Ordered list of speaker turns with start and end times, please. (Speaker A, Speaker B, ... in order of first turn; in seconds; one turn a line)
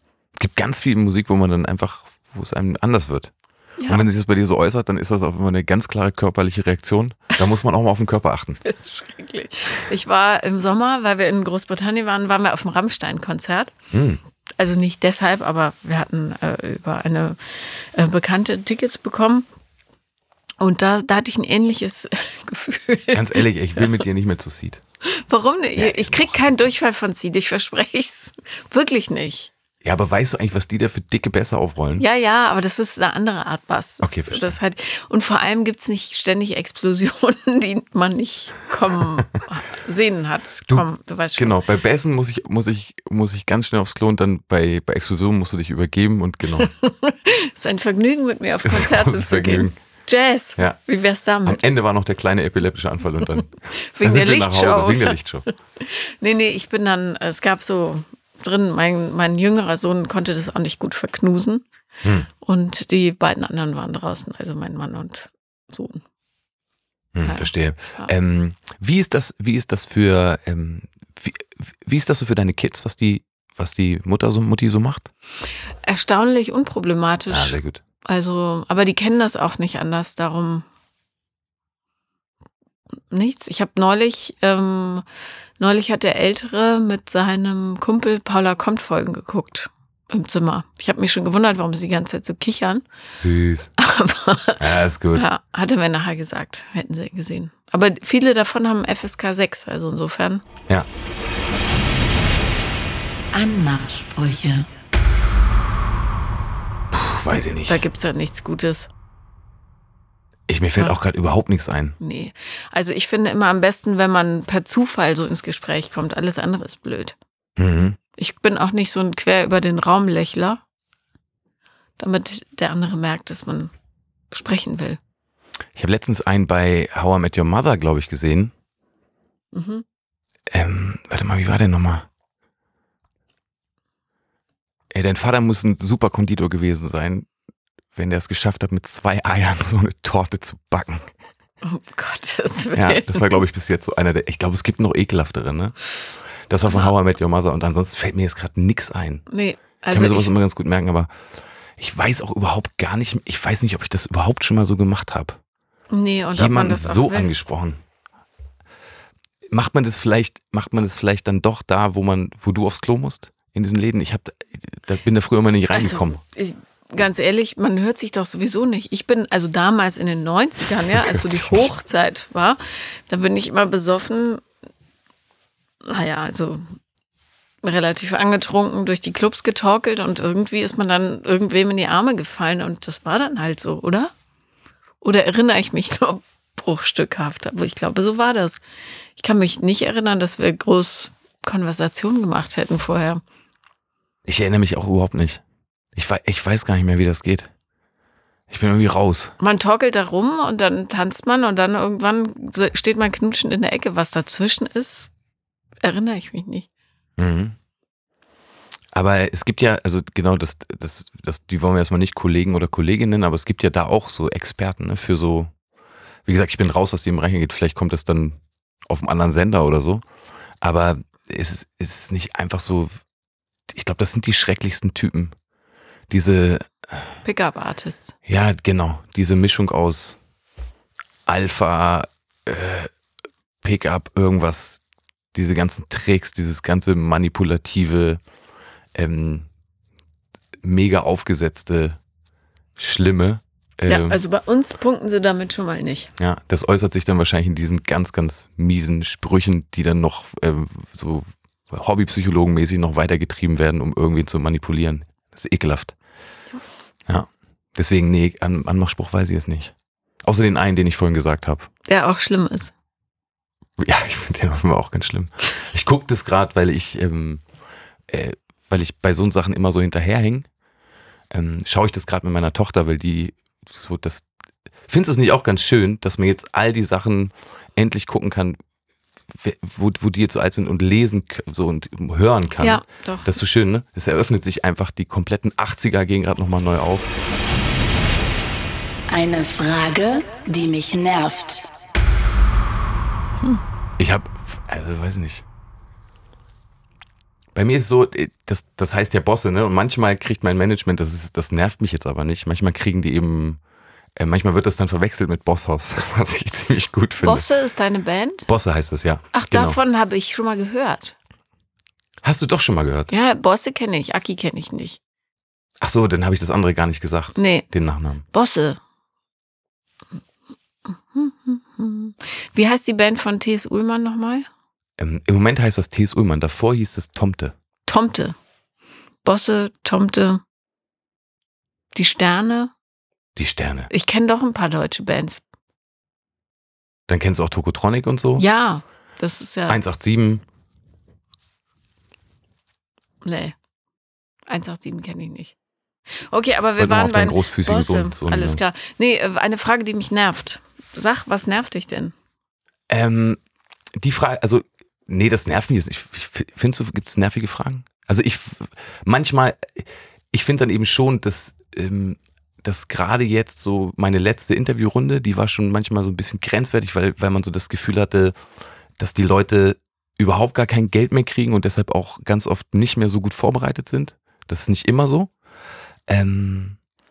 Speaker A: 0.3-3.3
Speaker B: 3.8-4.1
Speaker A: 3.9-8.6
Speaker B: 8.6-13.7
Speaker A: 13.9-14.2
Speaker B: 14.6-19.4
Speaker B: 20.6-24.0
Speaker A: 23.1-24.8
Speaker B: 25.1-29.5
Speaker A: 25.8-26.4
Speaker A: 29.8-32.0
Speaker B: 32.0-41.5
Speaker A: 34.0-34.6
Speaker A: 40.7-46.7
Speaker B: 46.6-51.6
Speaker A: 48.6-49.8
Speaker A: 51.4-55.5
Speaker B: 53.8-55.2
Speaker B: 55.8-61.6
Speaker A: 62.0-62.3
Speaker B: 62.4-66.0
Speaker A: 67.1-75.1
Speaker B: 67.2-68.1
Speaker B: 75.8-80.6
Speaker A: 77.3-77.8
Speaker B: 83.1-85.0
Speaker B: 85.6-92.8
Speaker A: 93.1-93.7
Speaker B: 93.8-100.4
Speaker A: 94.6-95.2
Speaker C: 103.3-104.7
Speaker A: 106.9-107.8
Speaker B: 107.3-108.9
Speaker A: 110.5-112.0
Speaker B: 112.0-117.2
Speaker A: 117.6-118.0
Speaker B: 118.2-120.6
Speaker B: 122.0-123.7
Speaker B: 124.3-125.0
Speaker A: 125.8-128.5
Speaker B: 129.5-129.8
Speaker A: 130.5-132.1
Speaker A: 134.9-137.3
Speaker A: 137.9-141.1
Speaker B: 141.6-143.4
Speaker A: 142.7-145.8
Speaker A: 146.5-149.2
Speaker B: 149.3-150.3
Speaker A: 149.9-151.1
Speaker A: 151.8-155.4
Speaker B: 155.9-157.3
Speaker A: 156.3-157.8
Speaker A: 159.5-166.2
Speaker B: 165.7-174.4
Speaker A: 170.9-171.7
Speaker B: 175.8-176.6
Speaker B: 177.6-184.1
Speaker B: 185.0-188.6
Speaker B: 189.2-193.2
Speaker A: 194.2-195.4
Speaker A: 195.9-197.5
Speaker A: 198.5-199.3
Speaker B: 199.4-205.1
Speaker B: 205.8-206.7
Speaker A: 207.2-207.5
Speaker A: 208.9-215.5
Speaker A: 216.2-220.0
Speaker A: 220.6-222.9
Speaker A: 223.7-225.3
Speaker A: 226.1-227.0
Speaker B: 227.2-228.1
Speaker A: 228.3-230.2
Speaker A: 231.2-232.9
Speaker A: 233.6-234.8
Speaker A: 235.3-238.2
Speaker A: 238.9-239.4
Speaker A: 240.6-242.0
Speaker A: 242.8-244.2
Speaker B: 243.9-246.1
Speaker A: 246.2-255.9
Speaker A: 257.1-259.7
Speaker A: 260.2-261.7
Speaker B: 261.9-262.7
Speaker A: 263.8-267.4
Speaker A: 268.1-270.5
Speaker A: 271.3-274.2
Speaker A: 274.9-278.6
Speaker A: 279.3-287.1
Speaker B: 282.6-283.3
Speaker C: 289.1-291.7
Speaker A: 294.0-295.4
Speaker A: 297.5-303.6
Speaker A: 304.1-307.5
Speaker B: 307.2-308.5
Speaker A: 308.5-309.8
Speaker B: 309.3-311.1
Speaker A: 312.2-313.1
Speaker B: 313.1-315.0
Speaker A: 315.8-318.2
Speaker B: 317.4-317.7
Speaker B: 318.3-318.8
Speaker B: 321.1-324.5
Speaker A: 325.0-327.5
Speaker B: 327.9-328.3
Speaker B: 329.2-330.4
Speaker B: 331.9-332.7
Speaker A: 333.4-333.9
Speaker B: 333.9-335.4
Speaker A: 337.1-338.4
Speaker B: 338.4-339.8
Speaker A: 339.7-340.4
Speaker B: 343.2-343.5
Speaker B: 344.5-345.5
Speaker B: 346.2-352.1
Speaker A: 346.8-348.6
Speaker A: 352.9-353.4
Speaker A: 354.0-368.3
Speaker A: 369.0-375.3
Speaker A: 376.1-376.8